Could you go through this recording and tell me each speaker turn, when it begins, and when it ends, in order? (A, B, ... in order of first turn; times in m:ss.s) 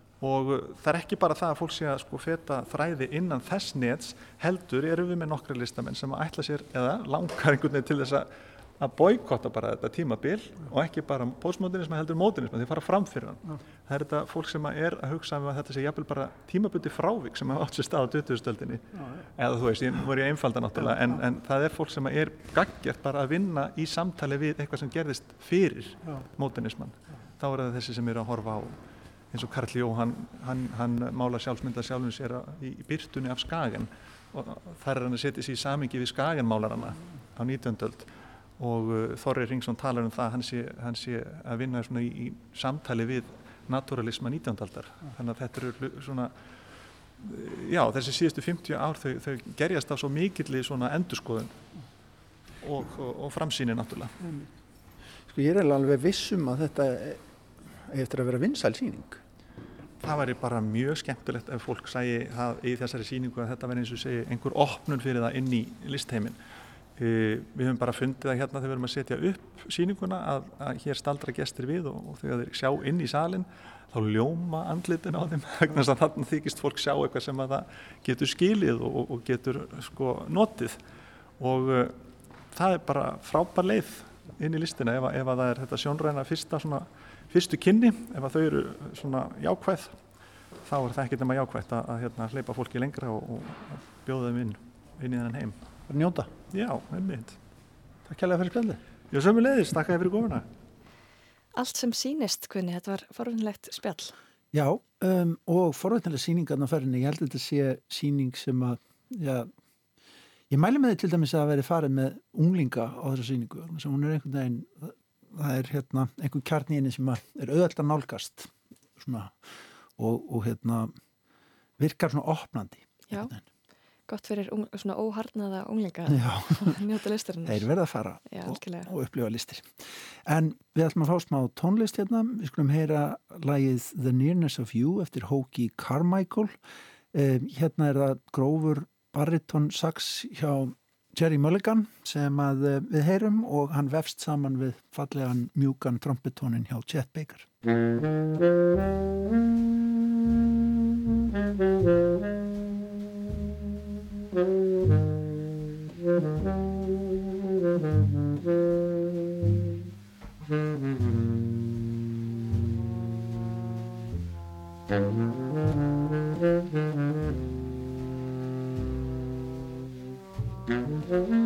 0:00.2-0:28.8 A
0:29.3-0:46.3 A
0:47.2-0:51.6 A
0:52.6-0:54.1 A
0:55.3-0:59.2 B
1:00.0-1:06.4 A
1:07.0-1:20.8 A
1:21.4-1:22.0 A
1:22.5-1:30.0 A
1:30.6-1:35.6 A
1:35.9-1:36.3 B
1:36.5-1:37.4 A
1:38.0-1:38.8 B
1:39.1-1:40.4 A
1:41.5-1:44.1 C
1:44.5-1:49.5 B
1:50.5-1:59.4 B
2:00.0-2:00.9 B
2:01.8-2:03.4 B
2:04.1-2:07.7 C
2:06.1-2:06.8 B
2:07.4-2:09.7 B
2:08.3-2:08.9 C
2:10.2-2:16.6 B
2:17.1-2:27.5 B